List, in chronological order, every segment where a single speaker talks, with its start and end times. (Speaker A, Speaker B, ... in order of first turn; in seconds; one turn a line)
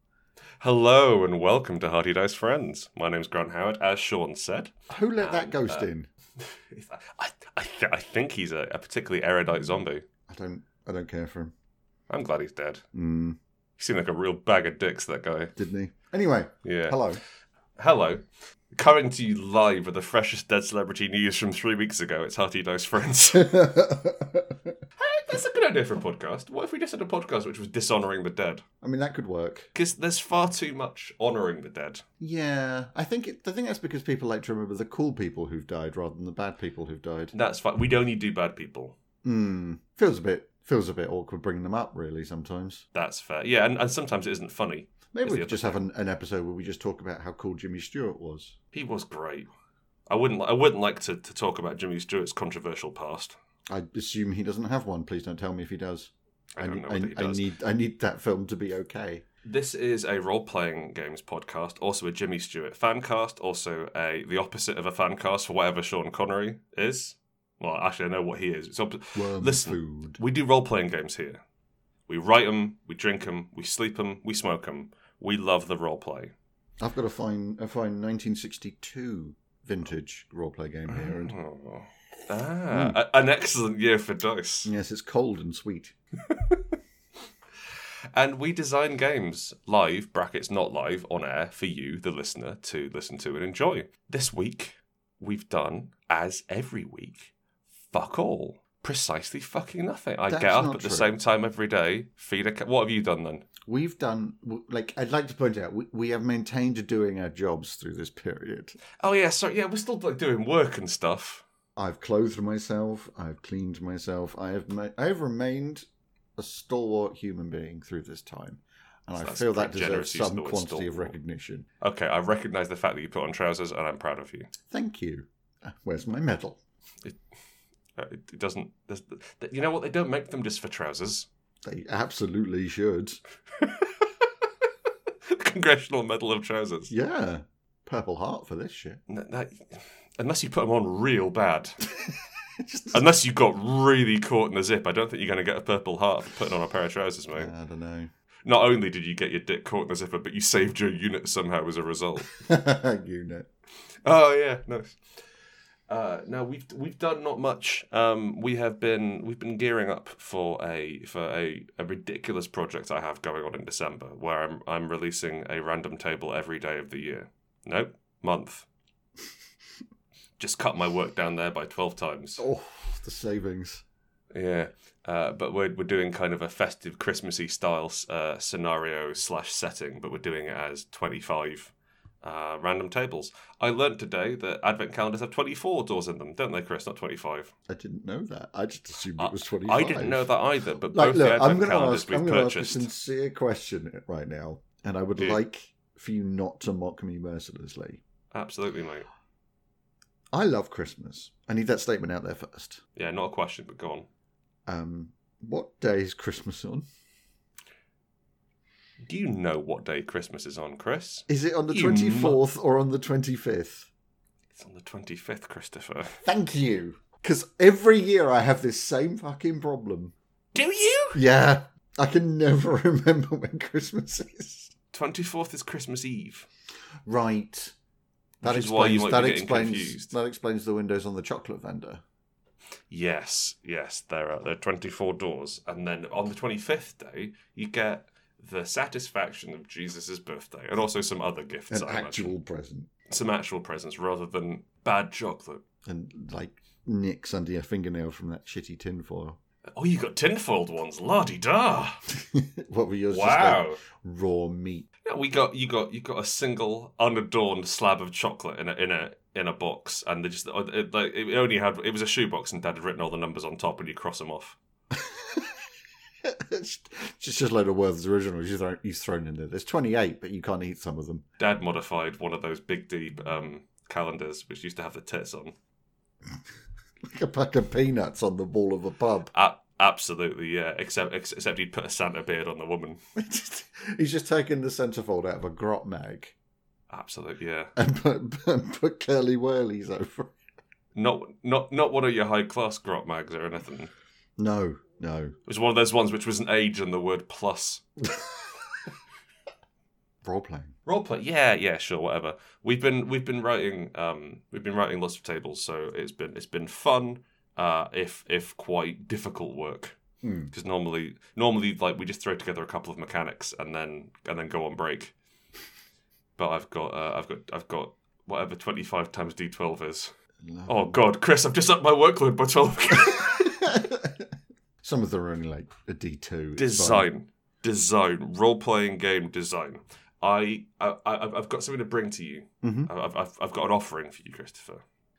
Speaker A: 0.6-10.0
Speaker B: 4.9-6.1
Speaker B: 10.3-11.5
Speaker A: 12.1-12.8
Speaker B: 12.9-13.4
Speaker A: 13.8-15.5
Speaker B: 15.6-17.2
Speaker A: 16.6-17.0
Speaker A: 17.8-23.7
Speaker B: 23.3-24.7
Speaker A: 25.0-28.6
Speaker B: 28.8-29.7
Speaker A: 29.7-32.0
Speaker B: 32.2-37.3
Speaker A: 37.3-39.0
Speaker B: 39.2-42.8
Speaker A: 42.9-45.8
Speaker B: 45.1-48.5
Speaker A: 48.7-49.5
Speaker A: 50.1-53.3
Speaker B: 53.7-59.2
Speaker A: 56.6-57.4
Speaker A: 59.4-71.4
Speaker B: 69.1-70.2
Speaker A: 72.1-76.3
Speaker B: 76.8-81.3
Speaker A: 80.9-84.7
Speaker B: 82.7-83.0
Speaker B: 84.6-85.9
Speaker A: 88.1-97.3
Speaker A: 97.9-103.5
Speaker B: 100.3-101.1
Speaker B: 103.7-108.8
Speaker A: 109.0-111.4
Speaker B: 111.8-115.8
Speaker B: 116.4-121.7
Speaker A: 119.2-121.1
Speaker A: 121.8-124.5
Speaker B: 124.7-126.6
Speaker A: 128.0-131.3
Speaker B: 131.6-133.2
Speaker A: 133.6-134.3
Speaker A: 135.2-136.9
Speaker B: 136.9-139.0
Speaker A: 139.1-141.8
Speaker B: 142.6-143.1
Speaker A: 142.9-147.5
Speaker B: 147.3-148.1
Speaker A: 148.4-152.3
Speaker B: 152.4-153.5
Speaker A: 154.0-155.0
Speaker A: 155.9-168.7
Speaker A: 170.4-172.4
Speaker B: 172.4-173.8
Speaker A: 174.3-187.5
Speaker B: 187.7-198.0
Speaker A: 189.2-192.9
Speaker A: 198.3-199.1
Speaker B: 200.3-202.8
Speaker A: 202.9-204.1
Speaker B: 204.7-206.8
Speaker A: 209.0-212.4
Speaker B: 211.3-213.9
Speaker A: 214.6-216.2
Speaker B: 216.2-220.1
Speaker A: 220.5-221.2
Speaker B: 221.1-224.7
Speaker A: 224.9-226.5
Speaker B: 227.1-227.7
Speaker B: 228.4-232.0
Speaker A: 228.4-230.1
Speaker A: 232.9-242.3
Speaker B: 241.7-242.9
Speaker A: 243.1-245.6
Speaker B: 245.8-249.4
Speaker A: 249.7-252.0
Speaker B: 252.1-254.9
Speaker A: 253.1-253.8
Speaker A: 255.0-264.6
Speaker B: 264.9-265.7
Speaker B: 266.2-271.2
Speaker A: 271.4-275.5
Speaker B: 277.0-279.3
Speaker A: 279.3-283.0
Speaker B: 283.1-286.3
Speaker A: 286.9-287.7
Speaker B: 287.8-290.3
Speaker A: 290.9-293.9
Speaker B: 294.4-295.4
Speaker A: 295.5-297.8
Speaker B: 300.2-300.7
Speaker A: 300.9-310.0
Speaker B: 310.2-310.5
Speaker A: 310.5-315.1
Speaker A: 316.4-320.1
Speaker B: 320.4-321.0
Speaker A: 320.6-323.6
Speaker B: 323.2-324.2
Speaker B: 324.8-327.1
Speaker A: 326.6-334.8
Speaker B: 332.6-332.9